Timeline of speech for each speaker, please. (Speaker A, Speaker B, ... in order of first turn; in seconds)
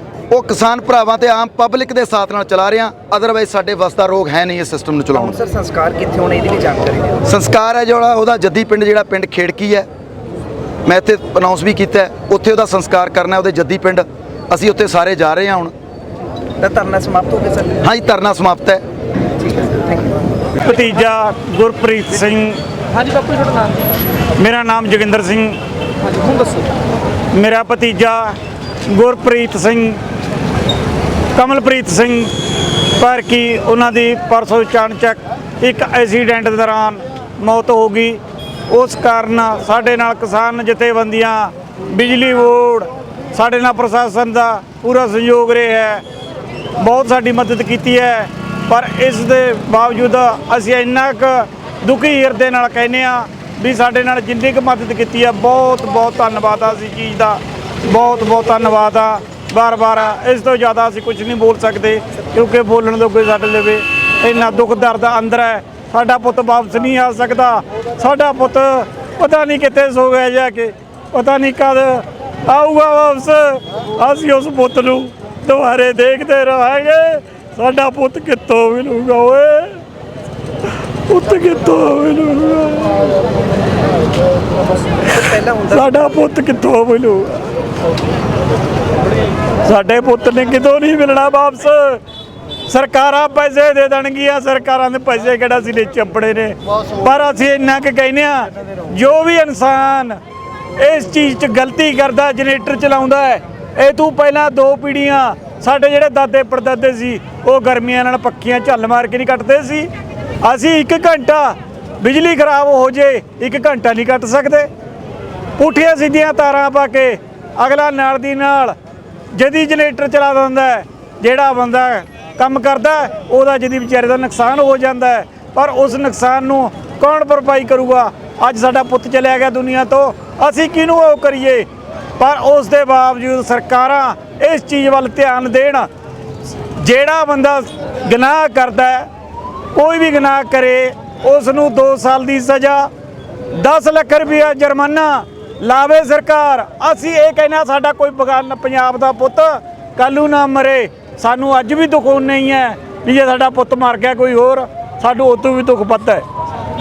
Speaker A: 0.3-5.4, 7.2-9.9, 10.9-15.7, 17.8-18.8
Speaker B: 5.2-7.2, 16.6-17.8, 19.4-20.2, 85.0-86.0
Speaker C: 20.6-22.6, 24.4-25.6, 27.3-28.4, 28.9-30.0, 31.4-32.4, 32.9-46.0, 46.8-79.8, 81.1-83.1, 85.7-87.4, 89.7-92.0, 92.7-100.2, 100.8-109.9, 110.4-114.7, 115.6-118.8, 119.3-131.7, 132.2-135.9, 136.8-139.1, 139.7-142.9, 143.5-156.2